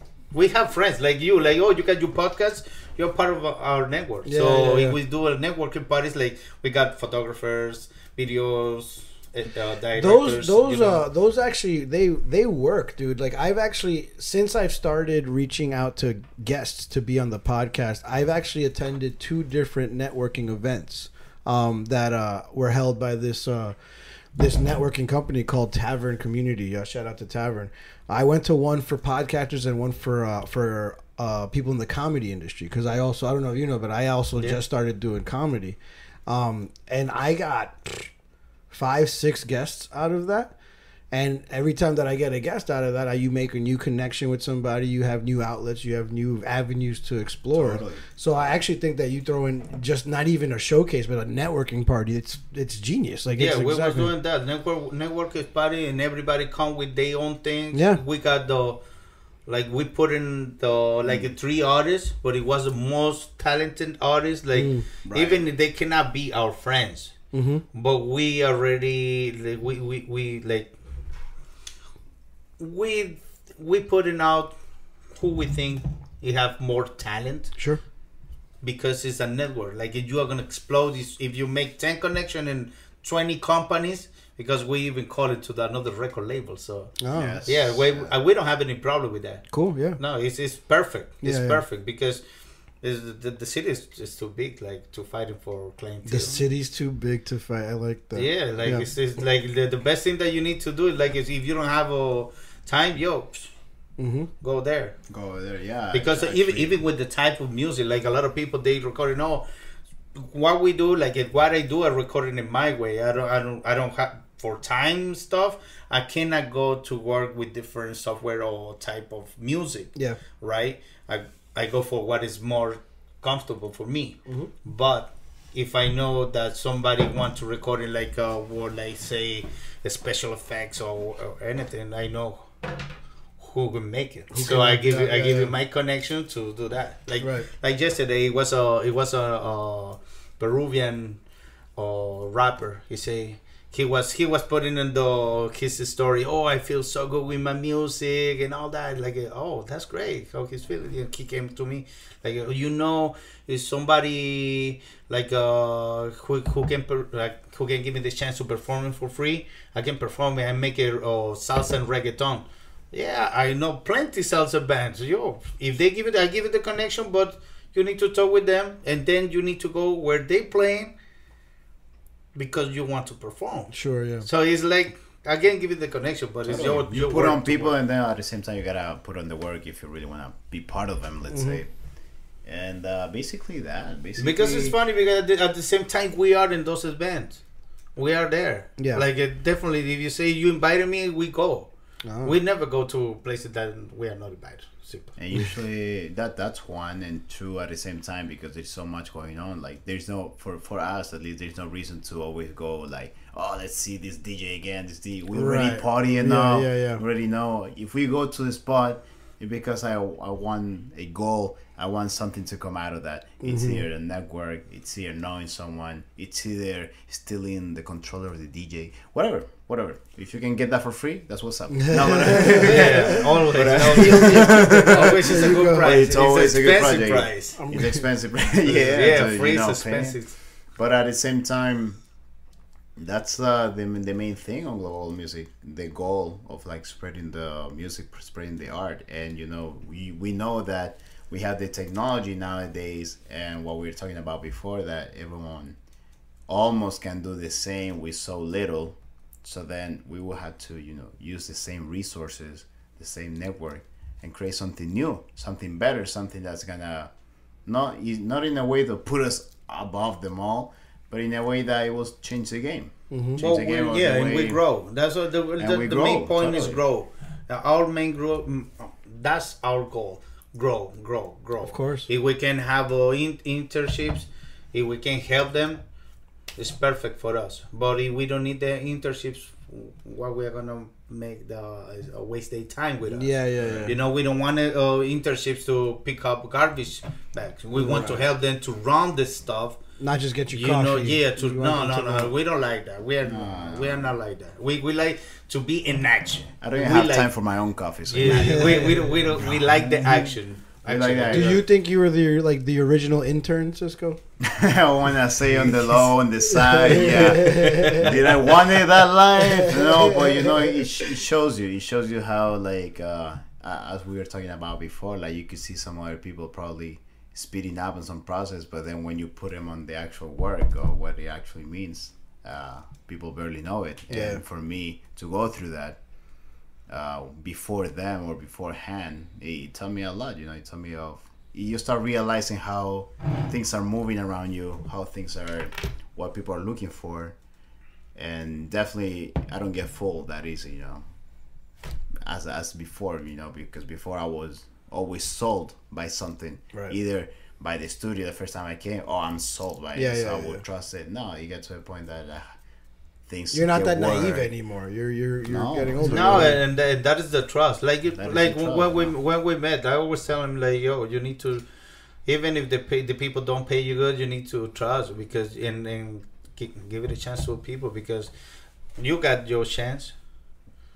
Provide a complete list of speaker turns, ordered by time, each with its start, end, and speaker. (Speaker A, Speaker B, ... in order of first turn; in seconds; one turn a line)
Speaker A: 0.3-11.0
Speaker B: 4.2-5.0
Speaker B: 9.9-23.8
Speaker B: 24.3-38.1
Speaker B: 38.7-40.5
Speaker B: 41.1-54.1
Speaker C: 47.5-48.0
Speaker A: 53.4-58.8
Speaker B: 57.7-58.0
Speaker A: 59.5-67.1
Speaker C: 61.1-61.3
Speaker B: 64.5-64.9
Speaker C: 65.0-65.4
Speaker B: 67.3-67.6
Speaker A: 67.7-70.7
Speaker A: 72.6-74.5
Speaker A: 75.1-77.5
Speaker A: 78.6-86.9
Speaker B: 87.0-87.4
Speaker C: 87.1-88.1
Speaker A: 87.5-89.4
Speaker B: 89.5-90.0
Speaker A: 90.0-92.2
Speaker B: 91.2-91.6
Speaker A: 92.8-96.4
Speaker B: 96.0-98.9
Speaker A: 98.1-103.5
Speaker B: 104.0-104.3
Speaker A: 104.4-104.9
Speaker C: 105.1-106.8
Speaker A: 105.9-109.4
Speaker A: 110.1-132.5
Speaker A: 133.4-141.2
Speaker B: 134.3-135.5
Speaker B: 137.2-137.5
Speaker A: 141.8-170.9
Speaker A: 172.3-173.7
Speaker B: 173.7-174.3
Speaker A: 174.2-177.7
Speaker C: 176.5-181.7
Speaker B: 181.3-181.6
Speaker C: 182.4-184.7
Speaker A: 184.2-187.4
Speaker A: 187.9-191.7
Speaker B: 188.8-189.0
Speaker B: 192.0-192.3
Speaker A: 192.2-195.1
Speaker C: 195.2-232.0
Speaker B: 205.3-207.0
Speaker B: 213.4-213.8
Speaker B: 221.8-225.9
Speaker A: 222.4-227.6
Speaker B: 227.6-228.0
Speaker A: 228.6-230.3
Speaker C: 233.0-245.8
Speaker C: 246.5-257.1
Speaker C: 257.6-264.6
Speaker B: 263.1-263.4
Speaker A: 263.4-275.8
Speaker C: 265.6-266.8
Speaker B: 271.6-272.1
Speaker A: 276.6-283.3
Speaker B: 283.1-284.0
Speaker C: 283.6-284.0
Speaker A: 283.9-289.8
Speaker B: 287.7-288.2
Speaker B: 290.0-292.3
Speaker A: 290.5-297.3
Speaker C: 293.2-294.1
Speaker C: 296.6-301.6
Speaker A: 298.1-301.6
Speaker B: 298.2-299.0
Speaker B: 301.3-304.2
Speaker C: 304.4-326.0
Speaker B: 305.6-308.2
Speaker A: 307.4-308.3
Speaker B: 309.4-311.2
Speaker B: 324.1-324.4
Speaker C: 326.9-337.3
Speaker C: 338.1-341.0
Speaker C: 342.2-352.6
Speaker B: 349.9-350.6
Speaker C: 353.3-354.5
Speaker B: 353.5-356.6
Speaker C: 355.5-356.6
Speaker A: 356.0-361.6
Speaker C: 358.1-359.1
Speaker A: 362.2-368.3
Speaker A: 369.0-370.1